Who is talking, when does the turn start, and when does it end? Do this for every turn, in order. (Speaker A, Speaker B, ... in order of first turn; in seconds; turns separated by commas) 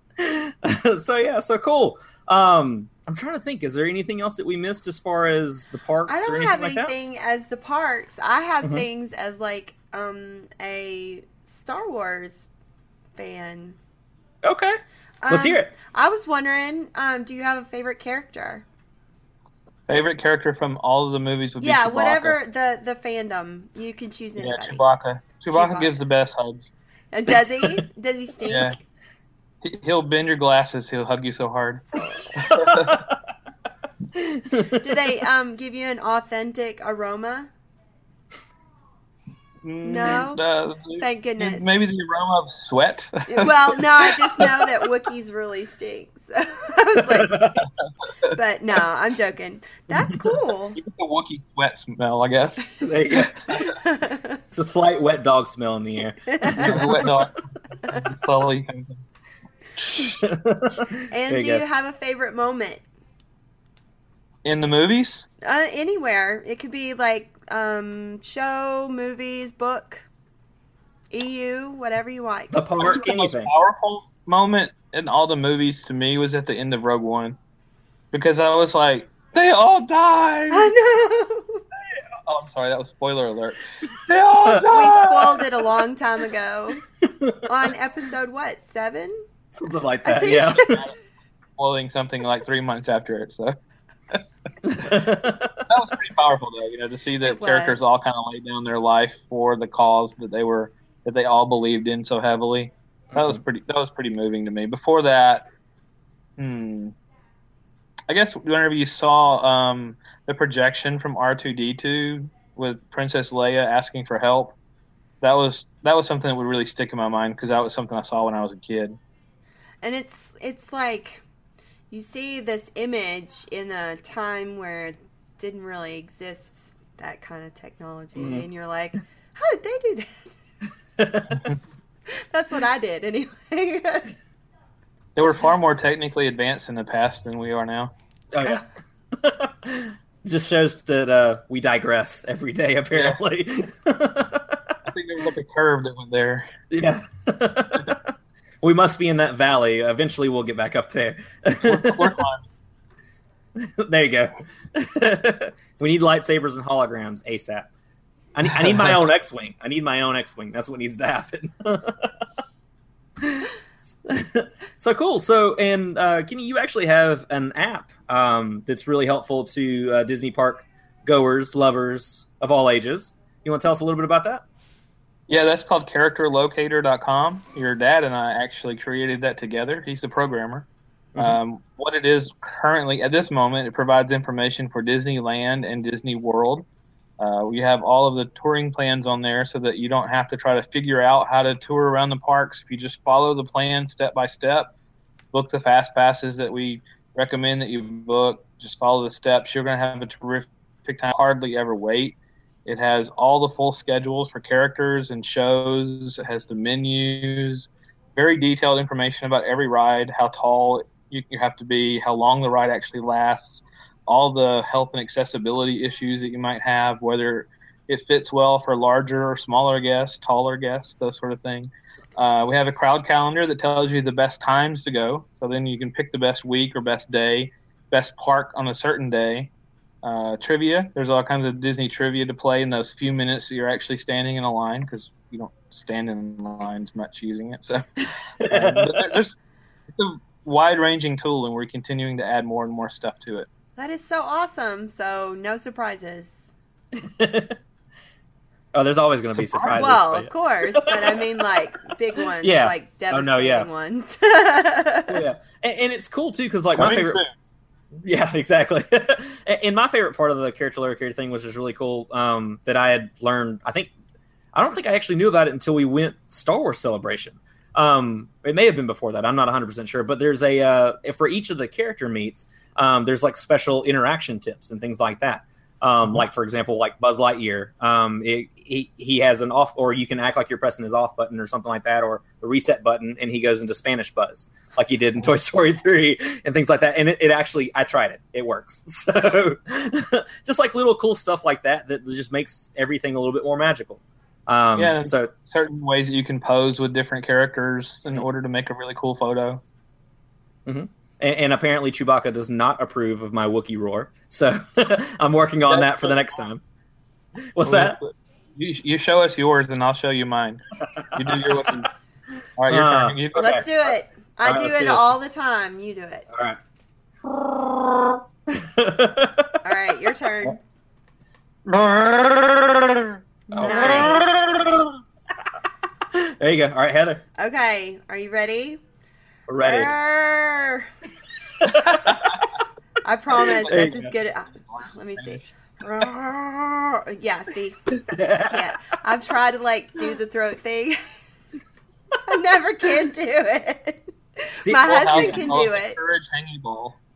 Speaker A: 0.2-6.9, Speaker B: 6.1-12.5, Speaker B: 13.1-13.8, Speaker A: 14.4-15.7, Speaker B: 15.2-18.6, Speaker C: 19.9-22.4, Speaker B: 21.6-24.8, Speaker C: 24.4-26.7, Speaker B: 25.5-26.0, Speaker B: 27.1-28.8, Speaker C: 28.4-28.8, Speaker C: 29.6-33.0, Speaker A: 32.3-33.1, Speaker A: 34.1-35.0, Speaker B: 34.7-37.5, Speaker C: 39.6-44.5, Speaker B: 39.8-40.4, Speaker B: 41.0-41.7, Speaker B: 43.3-47.4, Speaker A: 47.0-47.7, Speaker B: 48.2-50.8, Speaker C: 50.8-53.8, Speaker A: 52.8-53.3, Speaker B: 53.6-54.4, Speaker A: 54.5-57.0, Speaker B: 56.3-57.1, Speaker C: 56.6-59.0, Speaker A: 59.9-61.6, Speaker B: 61.1-62.8, Speaker C: 64.4-65.2, Speaker B: 65.4-70.1, Speaker B: 71.1-72.9, Speaker A: 72.5-73.5, Speaker C: 72.8-77.4, Speaker C: 78.1-80.7, Speaker B: 80.5-81.6, Speaker C: 82.2-85.5, Speaker B: 84.6-86.8, Speaker A: 87.0-87.4, Speaker B: 87.5-89.2, Speaker A: 89.5-90.8, Speaker B: 90.0-90.8, Speaker C: 90.5-90.9, Speaker C: 91.6-93.5, Speaker A: 94.6-95.6, Speaker C: 95.7-105.5, Speaker B: 97.2-97.8, Speaker A: 103.1-103.4, Speaker C: 106.4-106.9, Speaker C: 108.1-114.6, Speaker C: 115.2-119.0, Speaker B: 119.8-121.2, Speaker B: 121.9-130.3, Speaker A: 128.2-128.4, Speaker A: 131.0-131.4, Speaker B: 132.1-134.1, Speaker C: 135.2-137.9, Speaker A: 138.3-144.7, Speaker C: 142.9-143.2, Speaker C: 144.8-146.5, Speaker A: 146.7-148.1, Speaker A: 148.6-152.2, Speaker C: 151.6-152.5, Speaker A: 153.6-157.7, Speaker A: 158.3-162.1, Speaker A: 163.2-174.4, Speaker C: 175.3-186.7, Speaker C: 187.2-194.7, Speaker C: 195.3-229.5, Speaker C: 230.0-239.3, Speaker A: 238.4-239.2, Speaker C: 239.9-243.5, Speaker B: 243.8-246.4, Speaker A: 246.9-247.6, Speaker A: 248.7-251.4, Speaker C: 249.3-249.8, Speaker B: 249.7-255.2, Speaker A: 252.4-253.7, Speaker A: 255.1-257.2, Speaker C: 256.8-257.3, Speaker A: 258.0-263.9, Speaker A: 264.5-295.3, Speaker C: 294.8-299.6, Speaker A: 300.6-306.6, Speaker C: 305.7-306.3, Speaker A: 307.5-308.0, Speaker C: 307.6-311.9, Speaker A: 310.8-311.7, Speaker C: 312.6-313.9, Speaker A: 312.7-313.6, Speaker B: 313.3-316.3, Speaker A: 314.4-315.2, Speaker A: 316.3-316.6, Speaker A: 317.2-319.6, Speaker B: 319.6-320.6, Speaker C: 321.6-323.1, Speaker B: 323.5-324.2, Speaker A: 323.5-325.0, Speaker C: 323.6-324.2, Speaker A: 326.1-327.2, Speaker B: 327.4-328.8, Speaker A: 329.5-329.9, Speaker B: 329.6-330.9, Speaker A: 331.6-332.4, Speaker B: 333.0-341.0, Speaker C: 333.4-335.4, Speaker A: 333.7-334.1, Speaker A: 338.1-338.8, Speaker B: 342.2-346.0, Speaker A: 344.6-345.6, Speaker C: 344.8-347.0